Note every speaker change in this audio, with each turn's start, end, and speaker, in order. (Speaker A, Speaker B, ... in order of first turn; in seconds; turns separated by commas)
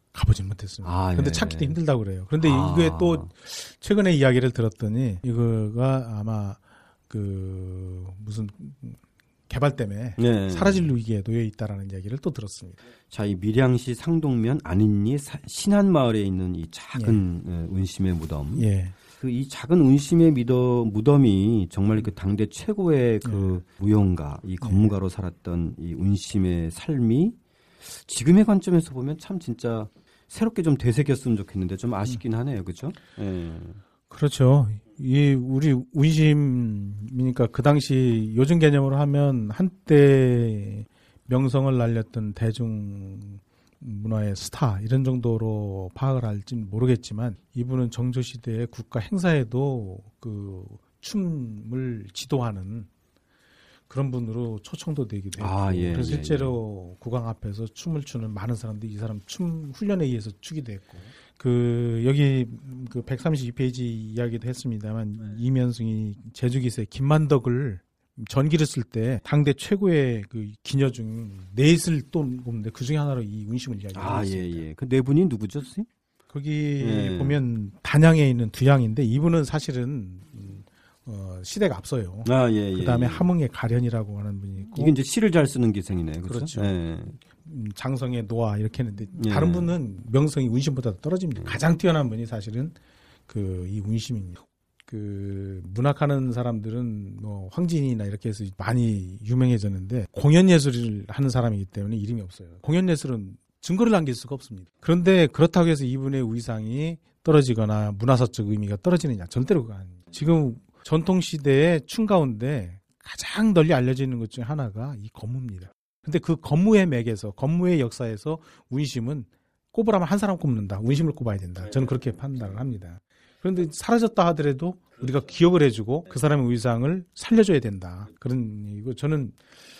Speaker A: 0.1-12.8, Speaker B: 0.8-1.8, Speaker B: 2.4-3.3, Speaker B: 10.2-10.9, Speaker B: 13.1-33.8, Speaker A: 16.9-17.2, Speaker A: 18.6-18.9, Speaker A: 23.2-23.6, Speaker A: 24.6-24.9, Speaker A: 34.1-52.9, Speaker A: 53.9-74.6, Speaker B: 55.4-56.6, Speaker B: 73.9-75.9, Speaker A: 76.3-85.0, Speaker B: 76.8-77.4, Speaker B: 82.2-83.3, Speaker B: 84.7-87.2, Speaker A: 86.3-86.7, Speaker A: 87.4-92.8, Speaker B: 89.2-89.7, Speaker A: 93.3-129.4